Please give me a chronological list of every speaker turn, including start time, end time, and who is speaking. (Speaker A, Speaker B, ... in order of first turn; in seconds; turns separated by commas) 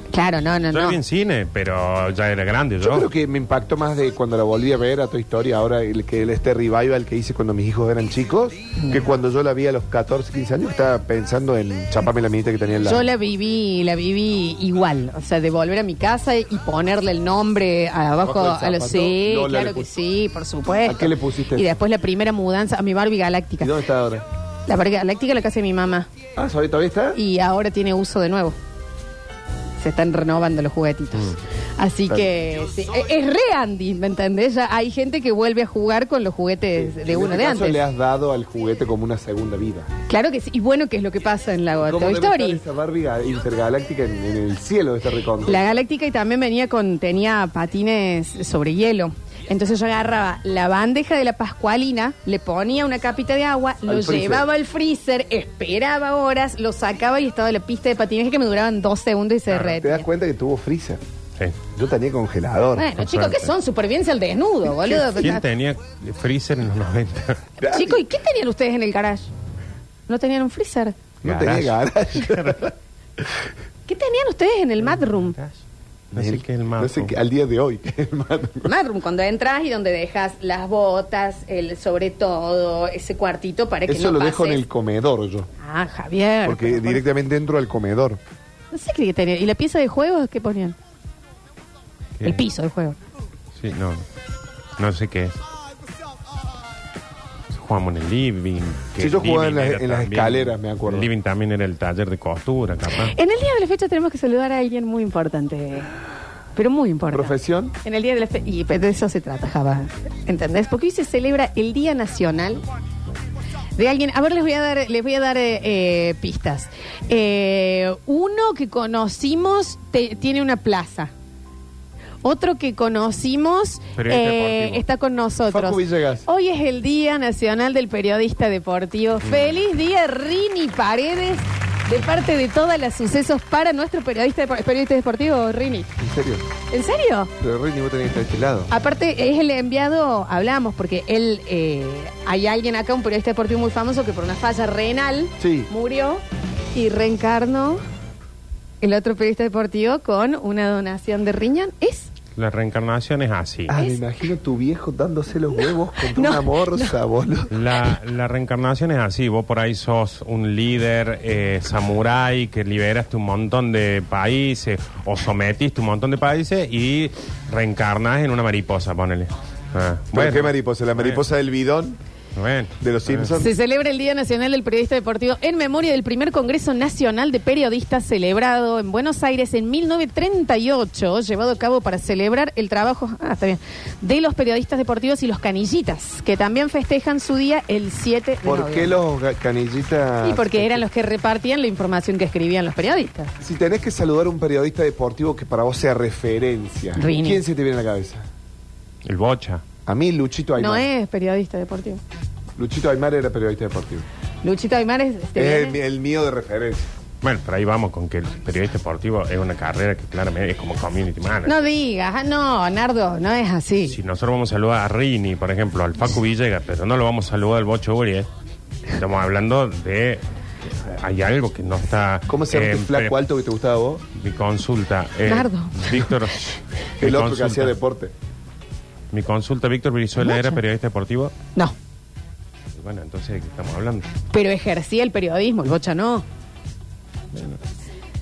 Speaker A: 0.1-1.0, Speaker B: 0.7-3.1, Speaker C: 2.8-13.1, Speaker A: 12.8-23.8, Speaker C: 18.2-19.9, Speaker C: 20.9-21.7, Speaker C: 23.6-24.2, Speaker A: 24.7-26.1, Speaker C: 26.4-27.2, Speaker A: 27.1-28.6, Speaker A: 29.8-37.8, Speaker C: 36.8-39.9, Speaker A: 40.1-42.6, Speaker C: 41.8-45.7, Speaker A: 45.4-60.1, Speaker C: 53.9-54.5, Speaker C: 59.8-61.0, Speaker C: 61.7-62.9, Speaker A: 62.7-65.4, Speaker B: 63.0-63.5, Speaker B: 65.1-67.4, Speaker C: 67.6-68.0, Speaker A: 67.7-69.3, Speaker A: 70.1-71.0, Speaker C: 71.2-73.4, Speaker B: 71.2-72.7, Speaker A: 73.9-75.3, Speaker B: 74.8-75.6, Speaker B: 76.1-77.1, Speaker C: 76.1-78.7, Speaker A: 78.6-84.6, Speaker C: 83.9-85.5, Speaker A: 85.6-87.0, Speaker C: 86.4-88.2, Speaker A: 88.7-90.8, Speaker A: 92.2-93.0, Speaker B: 93.6-94.0, Speaker B: 94.8-95.3, Speaker B: 97.5-103.1, Speaker C: 99.0-101.1, Speaker A: 103.0-105.9, Speaker A: 106.5-107.3, Speaker C: 107.1-107.8, Speaker A: 107.8-112.6, Speaker A: 113.8-121.1, Speaker A: 122.2-135.9, Speaker B: 124.0-124.8, Speaker C: 125.5-126.3, Speaker B: 129.2-129.6, Speaker C: 136.0-136.4, Speaker A: 136.7-137.3, Speaker C: 137.4-138.7, Speaker A: 138.7-146.2, Speaker C: 145.4-145.7, Speaker A: 146.7-147.8, Speaker A: 148.8-152.1, Speaker B: 152.4-153.7, Speaker C: 153.7-157.6, Speaker A: 153.8-154.0, Speaker A: 156.1-156.9, Speaker B: 157.5-171.2, Speaker C: 170.1-172.0, Speaker B: 172.3-173.3, Speaker C: 172.8-173.5, Speaker A: 173.4-189.0, Speaker C: 188.4-190.9, Speaker A: 190.2-193.3, Speaker C: 193.4-198.3, Speaker A: 196.9-197.4, Speaker B: 199.0-199.6, Speaker C: 199.9-200.9, Speaker A: 200.6-202.0, Speaker C: 202.6-204.1, Speaker A: 204.4-205.8, Speaker C: 205.4-206.9, Speaker B: 207.2-211.6, Speaker A: 211.4-214.0, Speaker B: 213.8-218.3, Speaker B: 218.9-223.2, Speaker C: 222.3-224.1, Speaker B: 224.1-227.7, Speaker A: 225.2-226.1, Speaker C: 227.0-228.1, Speaker B: 229.1-231.3, Speaker A: 230.2-230.6, Speaker B: 232.7-234.1, Speaker A: 234.3-236.2, Speaker B: 237.3-237.6